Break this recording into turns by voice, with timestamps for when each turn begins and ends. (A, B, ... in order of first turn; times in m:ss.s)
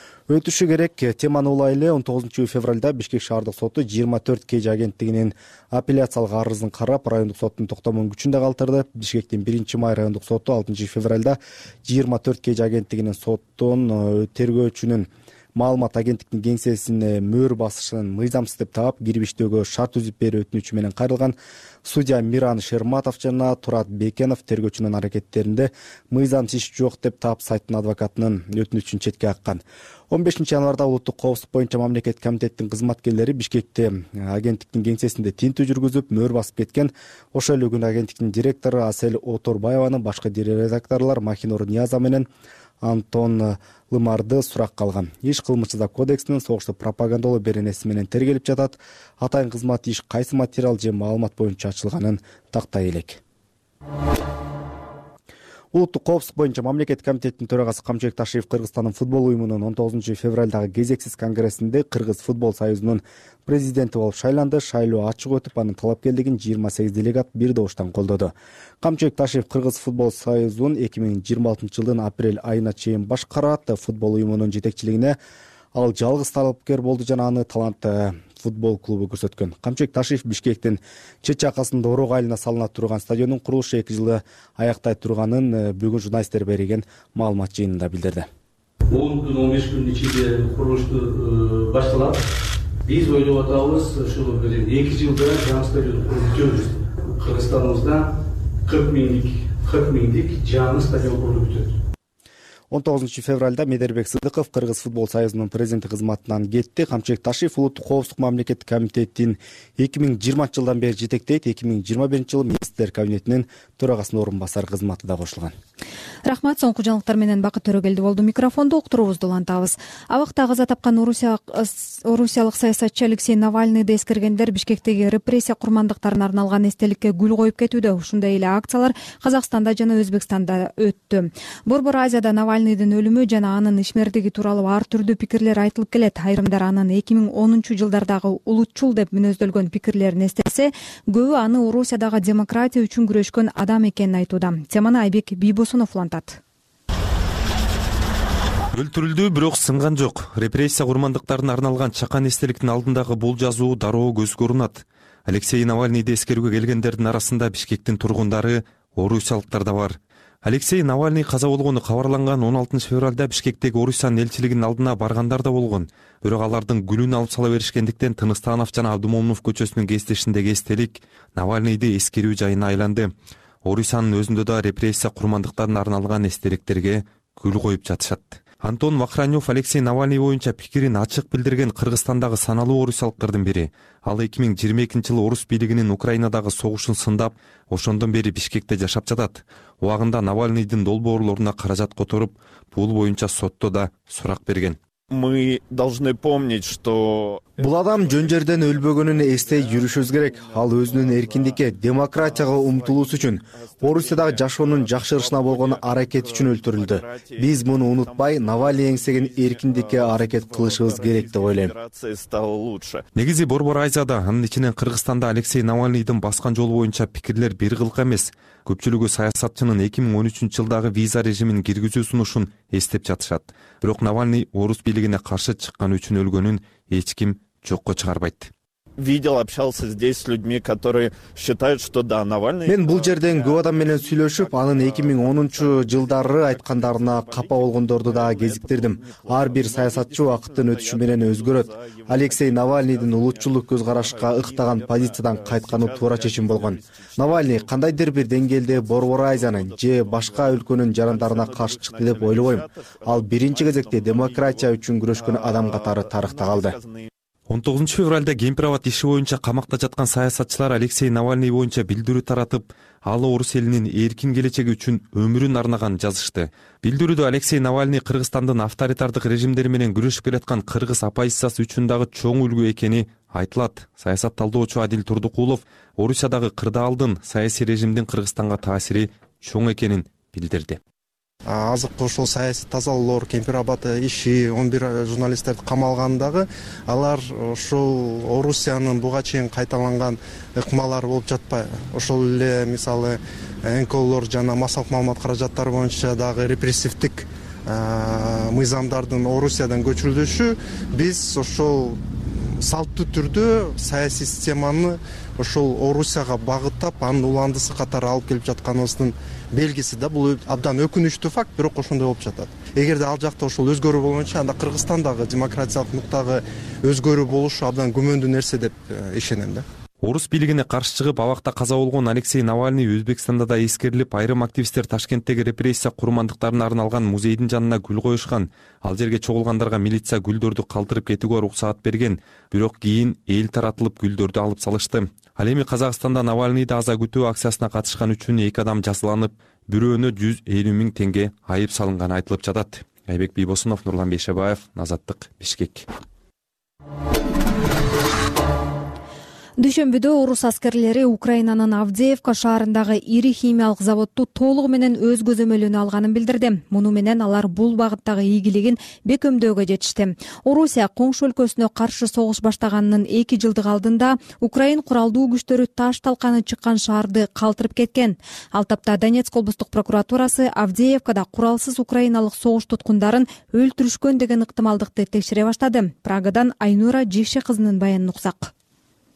0:00.3-0:42.3 A
0:42.8-0:53.2 A
0:55.7-1:15.2 A
1:15.7-1:28.3 A
1:28.9-1:32.2 B
1:32.8-1:38.1 B
1:38.6-1:41.8 B
1:42.7-1:55.6 A
1:56.2-2:26.4 C
2:28.7-2:53.1 D
2:53.6-3:14.8 D
3:15.1-3:17.6 E
3:17.6-3:31.7 A
3:24.0-3:27.4 E
3:28.3-3:28.6 E
3:30.1-3:33.0 E
3:33.2-3:48.5 D
3:49.0-3:56.6 E
3:52.6-4:16.8 A
3:58.3-4:00.8 E
4:01.6-4:02.1 E
4:04.4-4:06.8 E
4:11.3-4:12.7 E
4:13.7-4:14.5 E
4:15.2-4:17.1 E
4:17.5-4:40.8 D
4:41.5-5:19.7 F
5:20.0-5:45.9 D
5:49.6-6:18.5 C